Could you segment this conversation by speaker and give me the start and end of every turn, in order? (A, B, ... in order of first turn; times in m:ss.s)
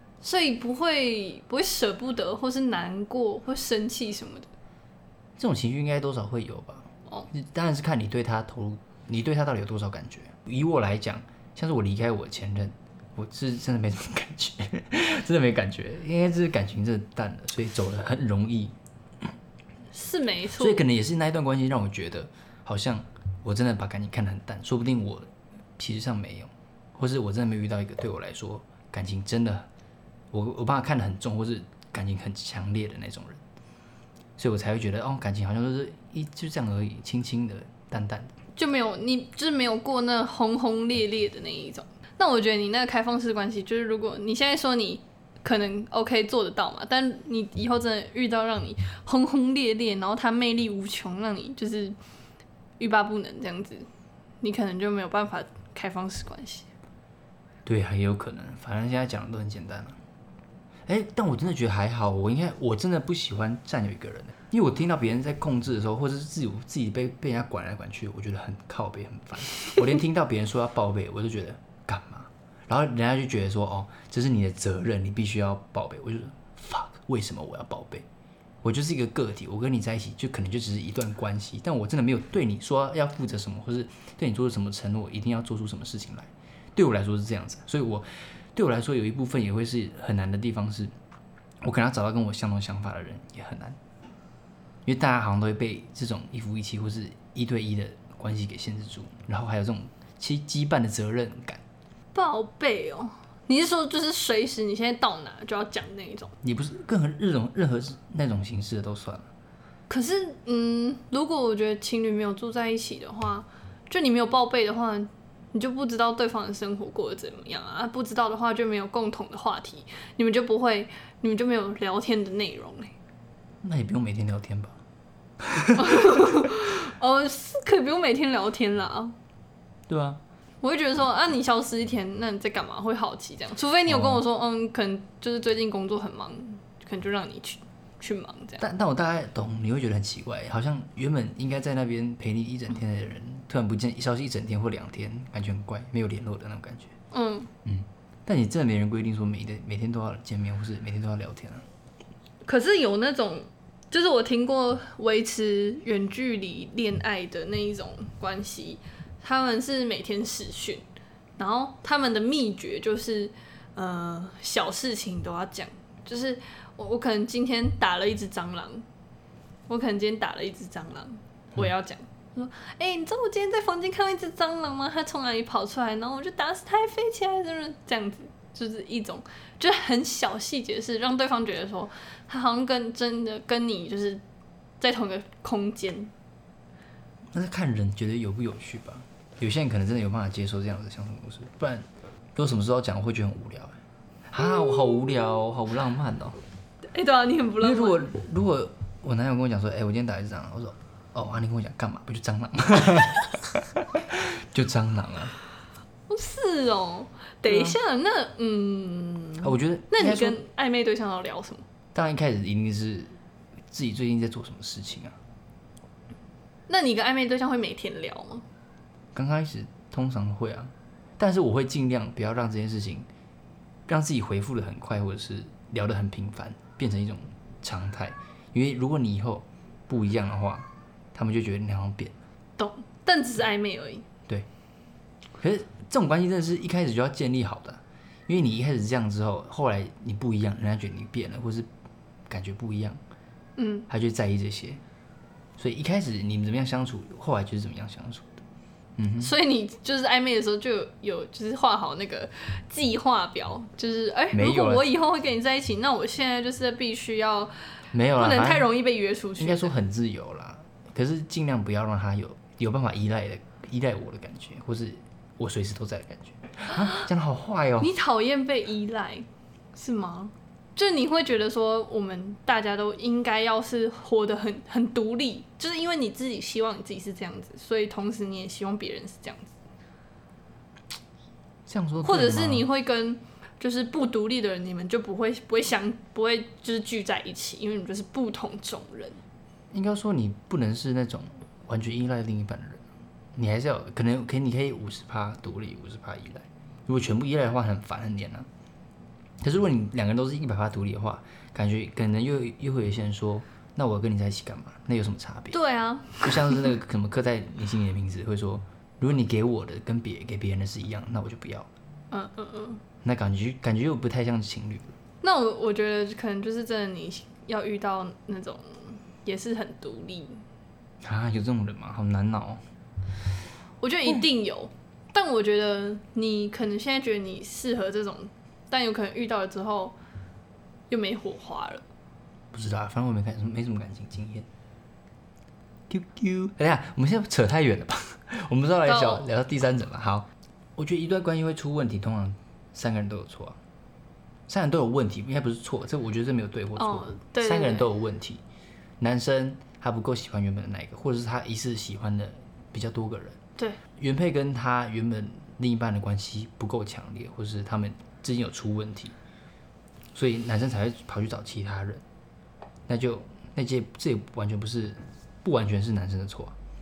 0:00.2-0:04.5 A
0:05.4-0:18.7 B
0:19.9-0:20.8 A
0:20.6-0:29.7 B
0:30.3-0:33.4 B
0:34.4-0:38.3 B
0:38.6-0:51.9 A
0:52.8-0:53.9 A
0:54.4-0:56.7 A
0:57.6-1:00.0 B
1:00.9-1:18.0 B
1:18.6-1:30.9 B
1:31.6-1:33.8 B
1:34.8-1:41.6 B
1:42.1-1:46.3 A
1:46.4-1:49.3 B
1:49.9-2:02.9 A
2:03.6-2:04.8 B
2:05.4-2:06.2 B
2:05.8-2:09.1 A
2:09.9-2:10.2 B
2:10.6-2:18.6 A
2:13.9-2:14.2 B
2:18.6-2:26.9 B
2:27.1-2:27.5 A
2:27.6-2:31.6 B
2:32.4-2:40.8 A
2:41.4-2:48.8 A
2:49.7-3:04.2 A
3:04.8-3:06.1 A
3:07.3-3:13.8 B
3:14.3-3:16.4 B
3:16.9-3:18.1 A
3:17.6-3:25.3 B
3:26.1-3:31.6 A
3:27.4-3:27.8 B
3:29.4-3:30.4 B
3:31.9-3:33.1 B
3:33.7-3:35.2 B
3:36.7-3:38.4 A
3:39.1-3:43.1 B
3:43.9-3:52.1 B
3:52.6-3:54.0 A
3:55.4-4:01.7 B
4:02.3-4:03.0 B
4:03.6-4:03.9 A
4:03.9-4:04.8 B
4:05.6-4:08.4 B
4:09.0-4:09.3 B
4:09.2-4:17.5 A
4:14.3-4:14.9 B
4:17.9-4:18.7 B
4:18.1-4:19.7 A
4:19.4-4:27.9 B
4:27.8-4:39.6 A
4:41.6-4:42.7 B
4:42.0-4:49.2 A
4:49.7-4:52.8 B
4:53.3-4:58.5 B
4:59.4-5:05.6 B
5:05.5-5:06.7 A
5:06.2-5:11.7 B
5:12.1-5:12.8 A
5:13.0-5:14.9 B
5:15.2-5:20.4 A
5:21.0-5:22.6 B
5:23.8-5:30.0 A
5:30.9-5:31.8 A
5:32.5-5:34.5 B
5:35.9-5:43.6 B
5:38.8-5:39.3 A
5:44.5-5:48.4 B
5:46.8-5:47.8 A
5:49.0-5:53.4 B
5:54.0-5:59.1 B
6:00.1-6:02.0 B
6:02.9-6:06.5 B